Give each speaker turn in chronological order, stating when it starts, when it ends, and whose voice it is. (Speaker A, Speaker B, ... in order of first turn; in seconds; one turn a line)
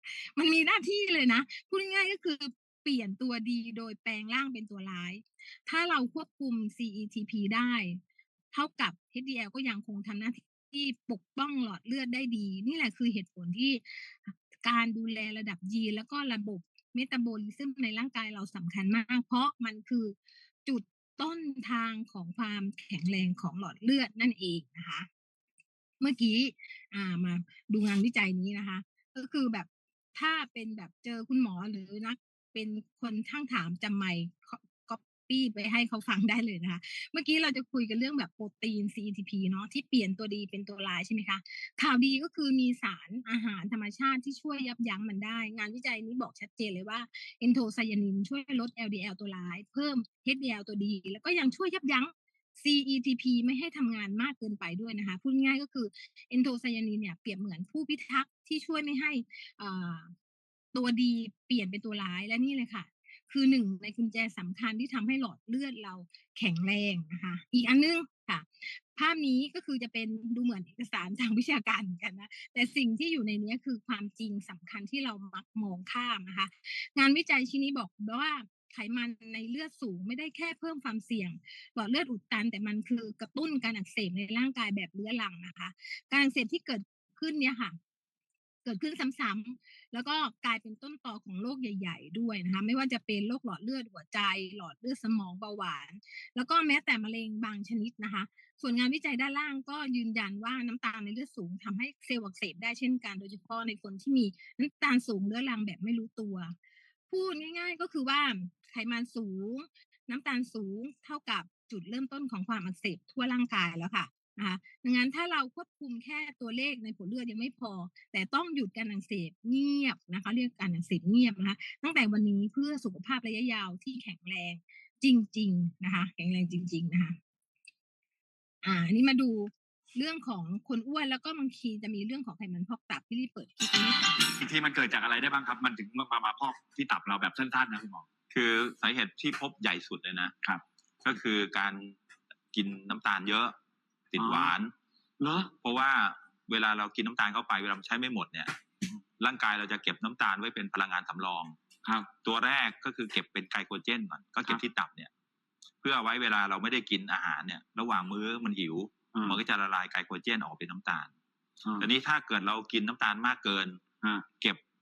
Speaker A: 0.2-8.0
Speaker A: 8.5-25.1
Speaker A: 26.0-60.1
Speaker A: 60.7-87.8
Speaker A: 88.6-106.5
Speaker A: 107.1-127.2
Speaker A: 128.6-134.2
Speaker B: 134.2-138.1
Speaker C: 138.3-140.3
Speaker C: 141.0-142.0
Speaker C: 142.5-143.5
Speaker C: 144.1-144.7
Speaker B: 144.2-144.5
Speaker B: 145.2-145.5
Speaker C: 145.6-148.5
Speaker C: 149.2-151.6
Speaker B: 151.8-152.1
Speaker C: 152.2-155.1
Speaker C: 155.8-161.1
Speaker B: 159.1-159.4
Speaker C: 161.8-163.8